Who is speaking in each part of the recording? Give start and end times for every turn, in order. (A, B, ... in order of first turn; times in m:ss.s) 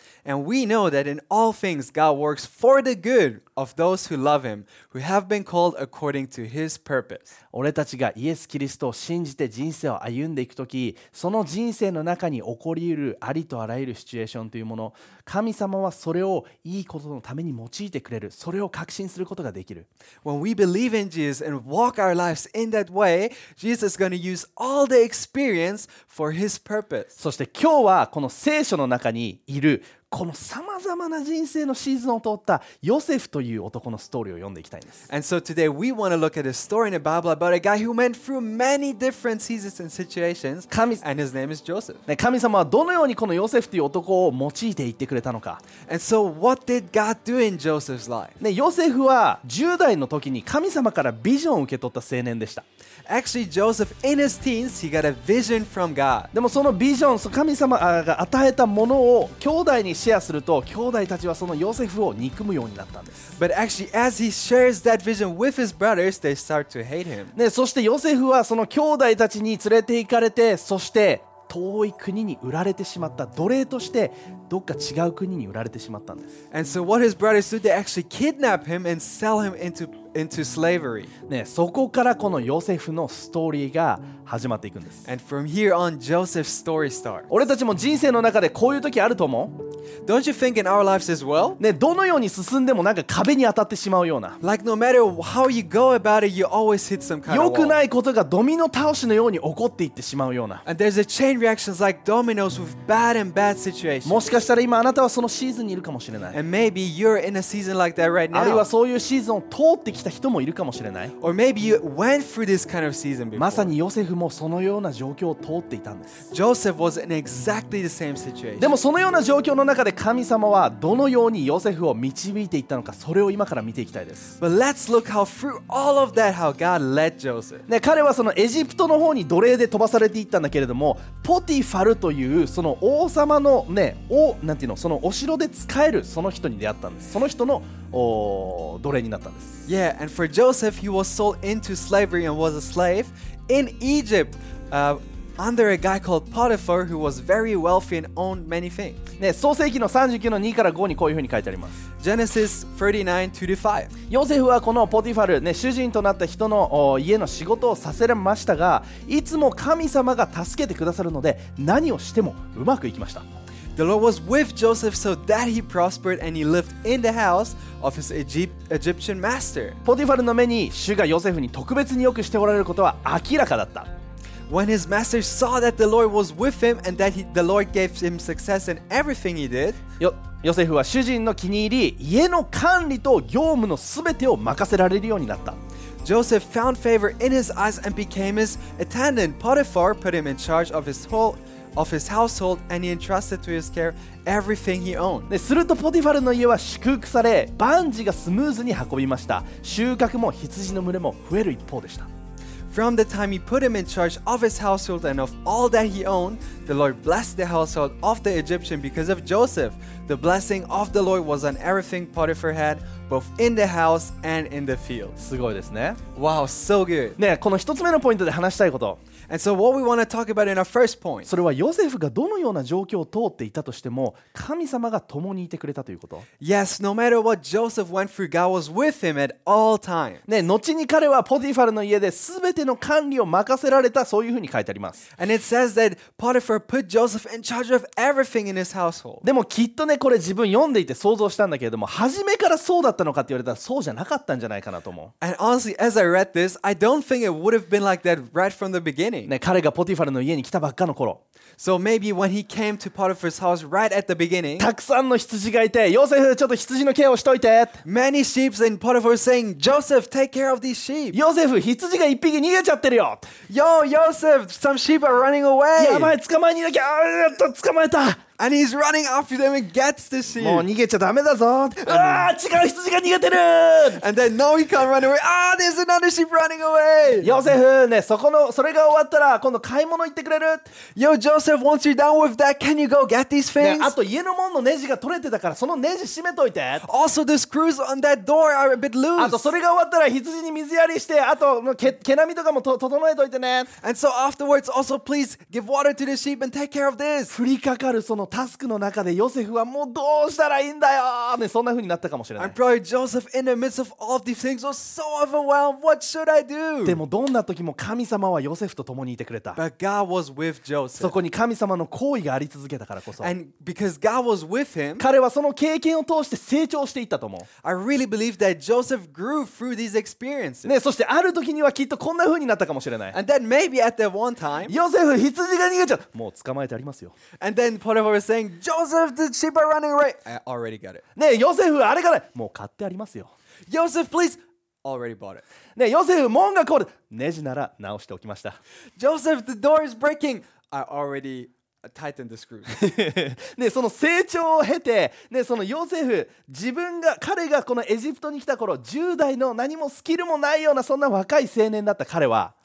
0:00.2-0:07.3 A
0:07.5-0:19.9 B
0:20.2-0:27.1 A
0:27.2-0:35.0 B
0:35.1-0:42.0 A
0:40.7-0:41.0 B
0:42.1-0:45.6 B
0:45.9-0:48.4 A
0:48.4-0:52.6 B
0:53.1-0:56.3 A
0:56.3-1:03.3 B
1:03.4-1:07.3 A
1:07.3-1:16.3 B
1:16.5-1:21.1 A
1:21.3-1:25.0 B
1:25.1-1:27.3 A
1:27.3-1:29.6 B
1:30.0-1:31.6 A
1:31.6-1:34.4 B
1:34.4-1:37.8 A
1:37.3-1:40.6 B
1:40.6-1:44.3 A
1:44.1-1:46.4 B
1:46.3-1:48.7 A
1:48.3-1:51.1 B
1:51.2-1:53.8 A
1:53.4-1:56.2 B
1:56.3-1:58.8 A
1:58.6-2:04.4 B
2:04.4-2:07.6 A
2:07.7-2:19.6 B
2:19.7-2:29.0 A
2:29.2-2:31.8 B
2:32.0-2:33.9 A
2:34.1-2:43.2 B
2:43.8-2:49.8 A
2:49.8-2:53.9 B
2:54.5-2:59.8 A
3:00.0-3:05.6 B
3:06.0-3:15.3 A
3:15.3-3:22.1 B
3:22.7-3:35.2 A
3:35.2-3:36.0 B
3:36.2-3:37.2 A
3:37.2-3:39.0 B
3:39.3-3:41.3 A
3:41.3-3:46.3 B
3:46.4-3:50.2 A
3:50.3-3:55.0 B
3:55.2-3:59.2 A
3:59.2-4:05.1 B
4:05.2-4:09.3 A
4:09.3-4:11.2 B
4:11.6-4:14.7 A
4:14.6-4:17.8 B
4:17.8-4:21.2 A
4:21.1-4:23.3 B
4:23.5-4:26.1 A
4:25.8-4:28.2 B
4:28.4-4:30.7 A
4:30.4-4:34.0 B
4:31.8-4:32.3 A
4:34.0-4:37.5 A
4:37.2-4:40.7 B
4:41.0-4:44.0 A
4:43.6-4:46.9 B
4:46.8-4:49.5 A
4:49.2-4:53.7 B
4:53.8-4:57.4 A
4:57.3-5:02.6 B
5:02.4-5:07.0 A
5:06.8-5:09.6 B
5:09.5-5:11.2 A
5:11.0-5:13.3 B
5:13.2-5:15.1 A
5:15.0-5:17.5 B
5:17.6-5:20.7 A
5:20.6-5:23.2 B
5:23.1-5:24.8 A
5:24.7-5:27.2 B
5:27.4-5:31.0 A
5:31.2-5:33.3 B
5:33.7-5:35.4 A
5:35.8-5:38.6 B
5:39.0-5:42.8 A
5:42.7-5:52.5 B